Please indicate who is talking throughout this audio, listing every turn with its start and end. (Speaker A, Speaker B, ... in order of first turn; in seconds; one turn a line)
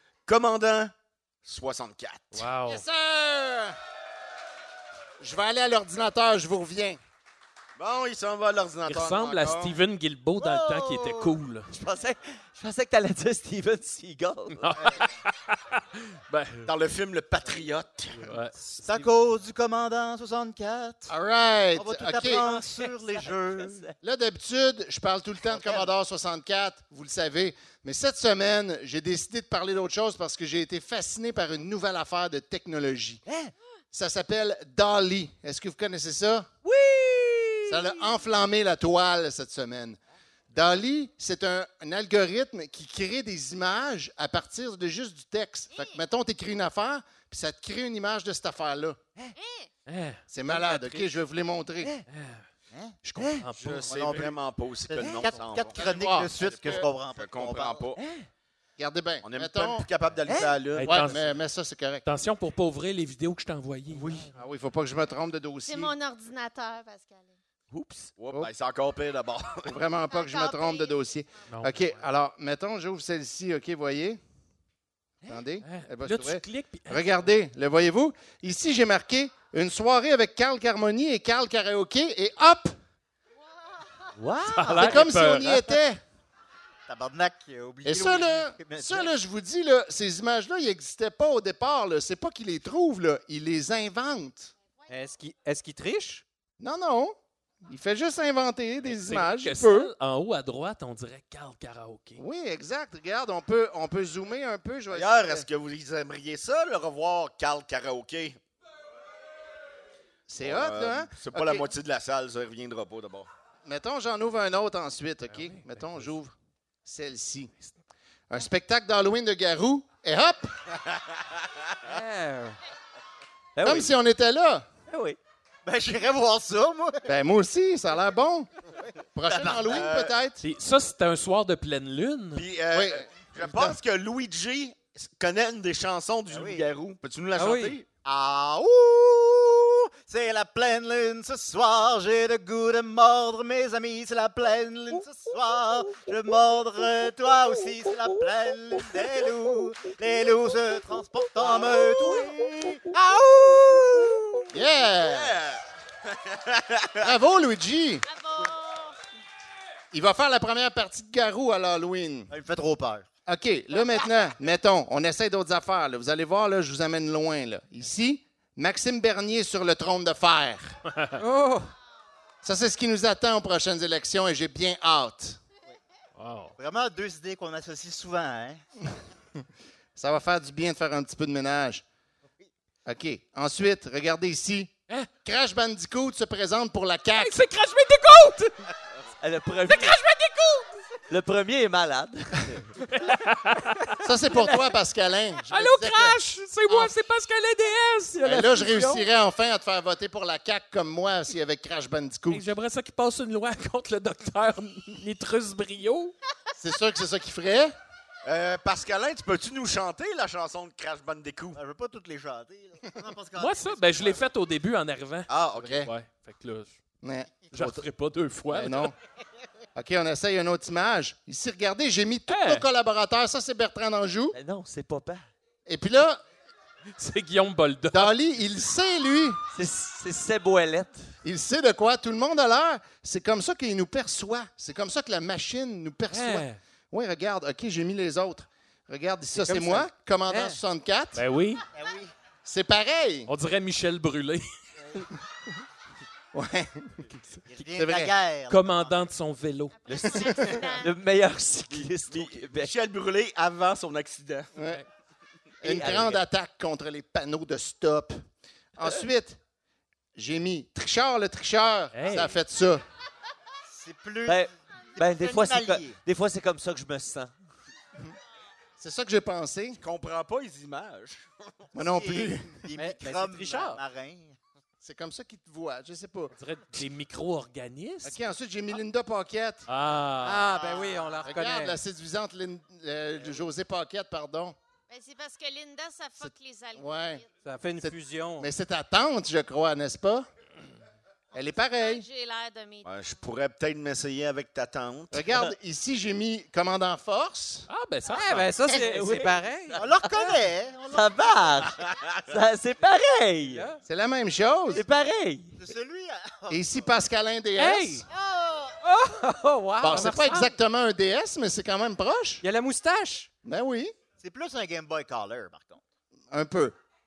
Speaker A: 0.2-2.5
Speaker B: 2.3-2.9
Speaker C: 2.6-3.8
Speaker C: 5.2-7.0
Speaker A: 7.8-9.7
Speaker B: 8.9-11.7
Speaker D: 10.4-11.3
Speaker E: 11.7-14.8
Speaker B: 14.6-16.7
Speaker D: 14.8-15.1
Speaker A: 16.6-18.3
Speaker B: 18.1-19.0
Speaker D: 18.8-21.1
Speaker C: 21.1-22.5
Speaker D: 21.7-23.8
Speaker E: 22.2-24.0
Speaker C: 24.0-33.2
Speaker D: 25.5-25.9
Speaker E: 33.2-33.5
Speaker C: 33.9-36.5
Speaker E: 36.6-38.0
Speaker C: 37.7-40.0
Speaker C: 40.5-49.0
Speaker F: 45.7-46.0
Speaker F: 49.4-49.7
Speaker B: 49.9-51.1
Speaker C: 50.3-52.0
Speaker E: 51.8-52.0
Speaker B: 52.1-52.4
Speaker D: 52.7-53.0
Speaker B: 53.1-54.2
Speaker E: 53.1-53.5
Speaker A: 53.6-58.0
Speaker D: 53.9-57.9
Speaker E: 55.0-55.3
Speaker C: 55.7-56.9
Speaker E: 58.0-58.3
Speaker C: 58.8-59.9
Speaker A: 59.2-61.1
Speaker E: 60.3-60.6
Speaker B: 60.8-61.4
Speaker C: 60.9-62.0
Speaker B: 62.0-64.2
Speaker E: 64.0-64.3
Speaker C: 64.3-65.9
Speaker F: 65.7-67.3
Speaker E: 67.7-68.1
Speaker A: 68.2-69.8
Speaker C: 69.7-74.2
Speaker F: 70.1-71.0
Speaker B: 71.5-72.0
Speaker C: 75.3-82.8
Speaker B: 75.6-77.3
Speaker E: 84.2-85.0
Speaker B: 84.5-85.8
Speaker C: 84.7-86.0
Speaker D: 86.9-89.1
Speaker C: 87.8-94.5
Speaker G: 94.9-96.2
Speaker C: 96.6-99.9
Speaker B: 98.8-102.2
Speaker C: 102.2-105.5
Speaker A: 104.9-108.4
Speaker C: 110.3-111.7
Speaker A: 110.4-113.3
Speaker C: 113.6-116.3
Speaker B: 115.3-116.1
Speaker C: 116.8-117.5
Speaker C: 118.3-120.5
Speaker A: 120.9-121.8
Speaker G: 121.8-122.6
Speaker E: 123.5-123.9
Speaker C: 123.6-124.7
Speaker E: 124.9-125.2
Speaker D: 125.6-127.0
Speaker C: 127.0-128.5
Speaker D: 128.7-129.9
Speaker C: 129.1-130.4
Speaker A: 129.6-130.2
Speaker B: 130.4-132.5
Speaker A: 132.3-137.8
Speaker C: 132.7-133.8
Speaker D: 136.3-136.7
Speaker G: 137.3-137.8
Speaker D: 138.0-154.4
Speaker C: 154.5-155.4
Speaker A: 155.0-157.2
Speaker C: 157.0-158.1
Speaker F: 158.1-159.0
Speaker C: 159.9-162.3
Speaker D: 162.3-163.1
Speaker C: 163.2-170.8
Speaker B: 170.9-171.2
Speaker G: 171.2-171.7
Speaker C: 172.4-175.4
Speaker B: 176.2-176.6
Speaker D: 176.6-178.6
Speaker C: 179.9-181.8
Speaker C: 182.9-184.7
Speaker C: 185.2-187.4
Speaker B: 187.1-188.7
Speaker E: 189.2-190.0
Speaker B: 189.7-190.8
Speaker E: 191.1-192.7
Speaker B: 192.8-194.0
Speaker C: 194.0-196.2
Speaker B: 195.5-199.1
Speaker C: 198.2-202.4
Speaker B: 202.3-206.1
Speaker C: 206.6-207.7
Speaker A: 208.2-211.6
Speaker D: 211.5-214.3
Speaker B: 213.4-216.8
Speaker A: 215.3-215.8
Speaker C: 215.6-215.9
Speaker C: 217.0-217.8
Speaker B: 217.5-218.9
Speaker C: 218.5-218.9
Speaker C: 219.8-224.4
Speaker B: 222.3-222.7
Speaker E: 224.3-225.2
Speaker C: 225.7-226.2
Speaker B: 226.9-228.2
Speaker C: 227.9-229.4
Speaker E: 229.5-231.1
Speaker C: 231.2-241.2
Speaker B: 236.1-236.6
Speaker G: 239.4-240.6
Speaker B: 241.1-241.6
Speaker D: 241.7-242.1
Speaker C: 242.4-243.3
Speaker B: 243.3-244.5
Speaker C: 246.3-248.1
Speaker D: 247.5-249.1
Speaker B: 248.5-250.1
Speaker F: 249.7-250.9
Speaker C: 249.9-250.7
Speaker E: 250.7-252.7
Speaker A: 251.7-254.5
Speaker C: 254.6-254.8
Speaker C: 255.6-258.2
Speaker E: 255.6-256.2
Speaker C: 258.8-259.4
Speaker C: 260.1-262.8
Speaker B: 261.9-262.4
Speaker D: 263.7-266.0
Speaker E: 264.3-267.3
Speaker C: 268.8-269.8
Speaker A: 269.8-271.6
Speaker D: 271.7-274.4
Speaker C: 271.7-272.7
Speaker G: 272.8-273.8
Speaker C: 274.8-276.3
Speaker B: 276.4-278.2
Speaker C: 278.0-279.7
Speaker B: 279.7-280.6
Speaker C: 280.2-280.6
Speaker G: 280.3-281.8
Speaker D: 280.5-281.3
Speaker C: 281.2-284.6
Speaker F: 284.9-287.3
Speaker C: 286.2-287.2
Speaker G: 287.4-288.5
Speaker C: 287.8-290.3
Speaker C: 291.3-292.1
Speaker F: 291.6-292.9
Speaker A: 292.8-295.4
Speaker C: 295.1-297.7
Speaker B: 297.7-299.2
Speaker G: 298.1-299.8
Speaker E: 298.6-300.3
Speaker D: 299.8-301.7
Speaker E: 300.9-303.6
Speaker A: 301.9-302.2
Speaker G: 303.5-303.8
Speaker C: 303.8-304.8
Speaker E: 304.7-305.6
Speaker D: 305.6-307.0
Speaker C: 306.5-308.1
Speaker B: 307.6-308.0
Speaker G: 307.6-308.0
Speaker D: 308.1-308.9
Speaker G: 308.8-310.5
Speaker C: 309.8-312.4
Speaker B: 309.9-310.4
Speaker G: 312.4-313.3
Speaker C: 313.4-313.9
Speaker D: 314.2-315.8
Speaker C: 316.3-316.8